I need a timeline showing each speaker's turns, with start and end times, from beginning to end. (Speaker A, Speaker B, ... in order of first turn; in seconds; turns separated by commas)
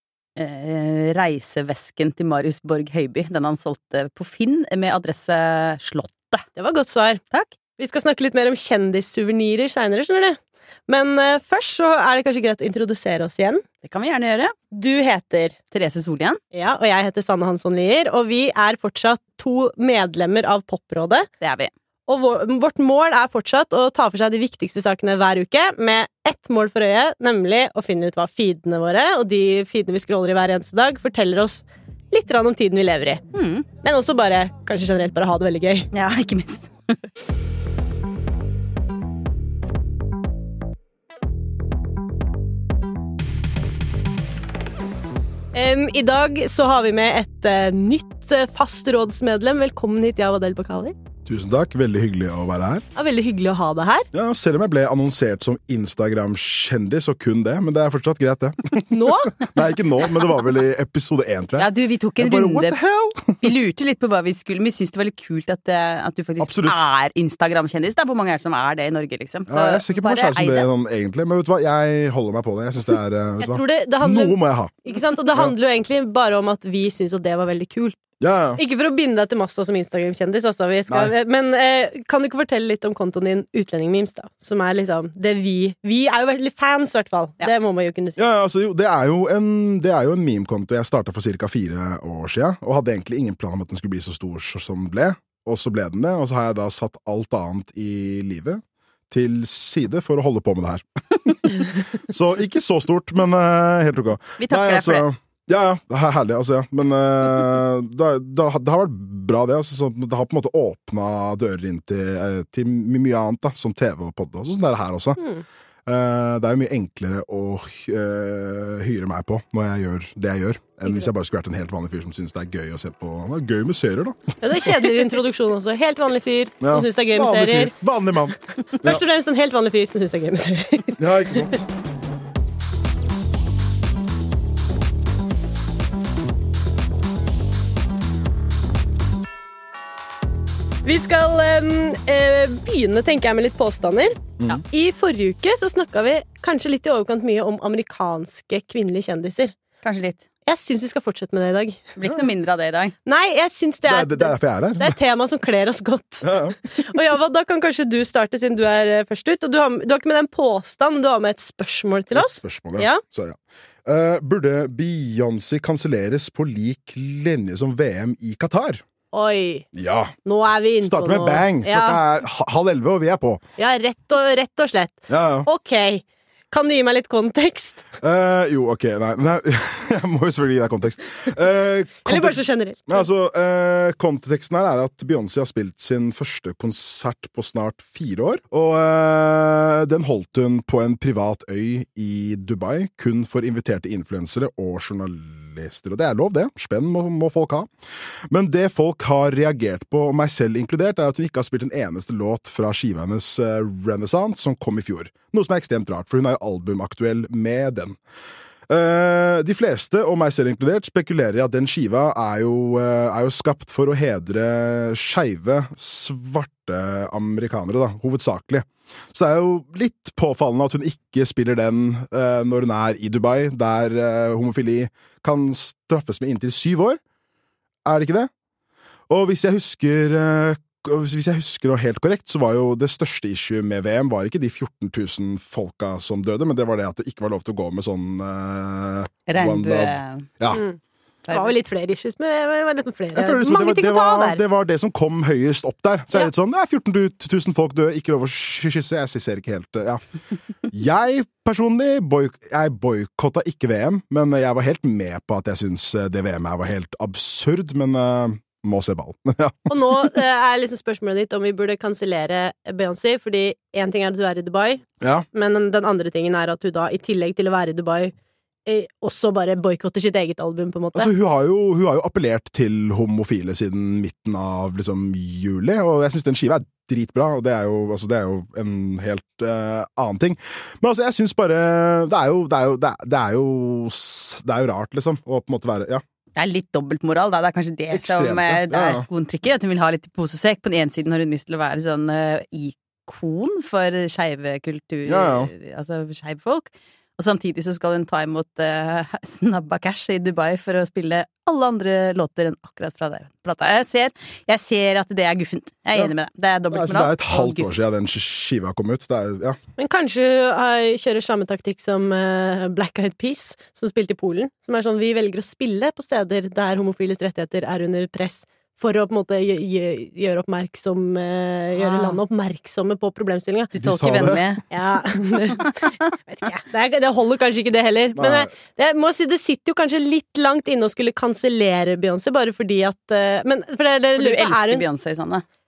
Speaker A: 0.4-6.5, Speaker B: 6.6-7.2, Speaker B: 7.8-13.6, Speaker A: 13.8-14.5, Speaker B: 14.7-15.6, Speaker A: 15.7-16.4, Speaker B: 16.5-21.3, Speaker A: 21.4-21.7, Speaker B: 22.1-33.2, Speaker A: 33.3-33.7, Speaker B: 33.8-35.9, Speaker A: 35.9-36.9, Speaker B: 45.5-51.0, Speaker C: 51.3-52.9, Speaker B: 53.0-54.1, Speaker C: 54.1-63.5, Speaker B: 58.9-59.3, Speaker A: 61.6-62.8, Speaker A: 63.4-70.7, Speaker C: 66.4-66.8, Speaker C: 69.5-74.7, Speaker B: 73.4-78.0, Speaker C: 78.2-78.6, Speaker B: 78.6-88.2, Speaker C: 88.2-115.2, Speaker A: 104.4-105.1, Speaker B: 115.2-115.4, Speaker C: 115.9-125.0, Speaker B: 124.4-127.7, Speaker C: 126.6-129.0, Speaker B: 128.8-131.4, Speaker C: 131.0-131.7, Speaker B: 140.8-149.5, Speaker A: 149.8-150.2, Speaker B: 150.5-151.9, Speaker A: 152.0-152.9, Speaker B: 153.1-163.0, Speaker C: 153.9-155.0, Speaker C: 156.2-156.6, Speaker C: 162.1-168.8, Speaker B: 169.1-169.7, Speaker C: 169.7-170.1, Speaker B: 170.2-172.0, Speaker C: 170.8-173.4, Speaker B: 173.6-177.9, Speaker C: 175.1-175.5, Speaker C: 178.0-197.7, Speaker B: 182.1-183.1, Speaker C: 198.3-208.0, Speaker C: 208.7-227.0, Speaker C: 227.8-228.3, Speaker C: 229.1-240.6, Speaker A: 239.3-240.3, Speaker B: 240.5-244.4, Speaker A: 241.3-241.5, Speaker C: 243.2-250.0, Speaker C: 250.7-260.1, Speaker B: 259.7-268.1, Speaker C: 265.0-265.3, Speaker B: 268.7-271.1, Speaker C: 270.9-286.0, Speaker A: 286.4-307.7, Speaker C: 287.9-289.1, Speaker C: 295.1-295.5, Speaker C: 306.7-309.6, Speaker B: 309.8-323.7, Speaker A: 321.8-322.2, Speaker C: 323.7-324.6, Speaker A: 323.7-324.6, Speaker B: 324.7-334.8, Speaker A: 325.6-325.9, Speaker C: 328.2-328.5, Speaker A: 334.2-335.4